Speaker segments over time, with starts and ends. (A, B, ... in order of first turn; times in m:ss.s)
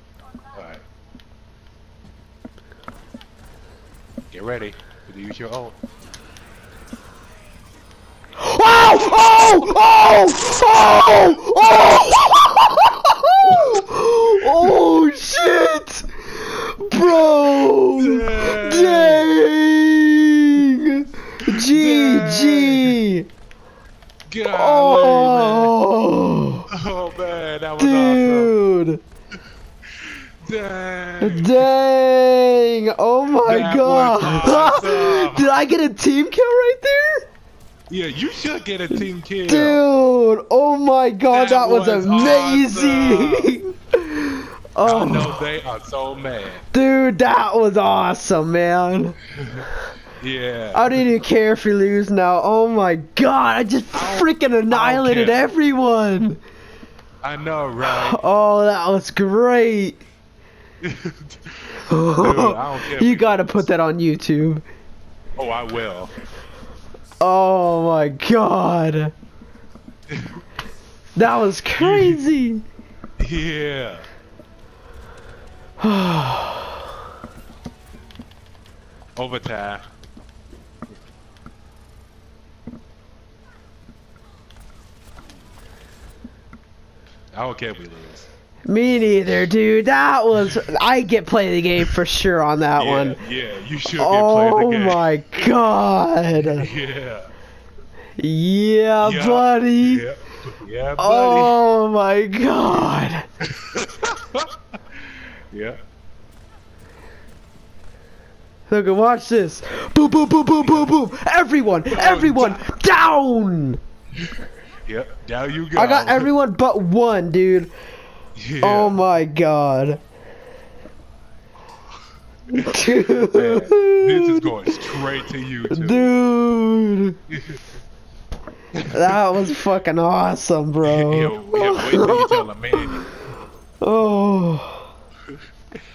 0:00.5-0:00.8 A
0:04.3-0:05.7 A
0:08.4-0:23.3 B
0:13.5-0:13.8 A
0:14.4-0:14.7 A
0:17.2-0:19.3 A
0:21.4-0:23.0 A
0:24.3-0:25.7 A
0:24.5-0:26.6 B
0:26.7-0:28.5 A
0:27.8-0:29.0 B
0:30.0-0:31.7 A
0:31.2-0:37.2 B
0:33.4-0:35.5 A
0:37.9-0:39.8 A
0:39.4-0:45.4 B
0:41.3-0:43.5 A
0:44.8-0:46.6 A
0:46.7-0:49.2 B
0:49.4-0:49.7 A
0:50.2-0:51.0 A
0:50.7-0:56.4 B
0:53.9-0:55.4 A
0:57.2-0:58.2 A
0:57.8-1:00.0 B
1:00.8-1:03.7 A
1:01.9-1:04.6 B
1:05.4-1:06.1 A
1:07.2-1:09.1 B
1:11.2-1:12.6 B
1:11.8-1:12.2 A
1:13.2-1:14.0 A
1:15.8-1:16.8 B
1:19.2-1:19.8 A
1:27.3-1:28.2 A
1:28.7-1:33.2 B
1:30.4-1:30.6 A
1:32.8-1:35.0 A
1:34.0-1:36.7 B
1:36.4-1:37.3 A
1:38.2-1:40.0 B
1:39.0-1:41.6 A
1:41.0-1:43.2 B
1:43.4-1:45.8 A
1:48.7-1:53.8 B
1:51.9-1:52.6 A
1:54.9-1:56.3 A
1:55.7-1:57.7 B
1:58.4-1:59.0 A
1:58.6-2:00.0 B
2:02.5-2:04.5 B
2:03.2-2:06.1 A
2:05.7-2:07.2 B
2:07.3-2:07.6 A
2:08.8-2:09.2 A
2:08.9-2:13.0 B
2:10.8-2:13.1 A
2:13.8-2:14.9 B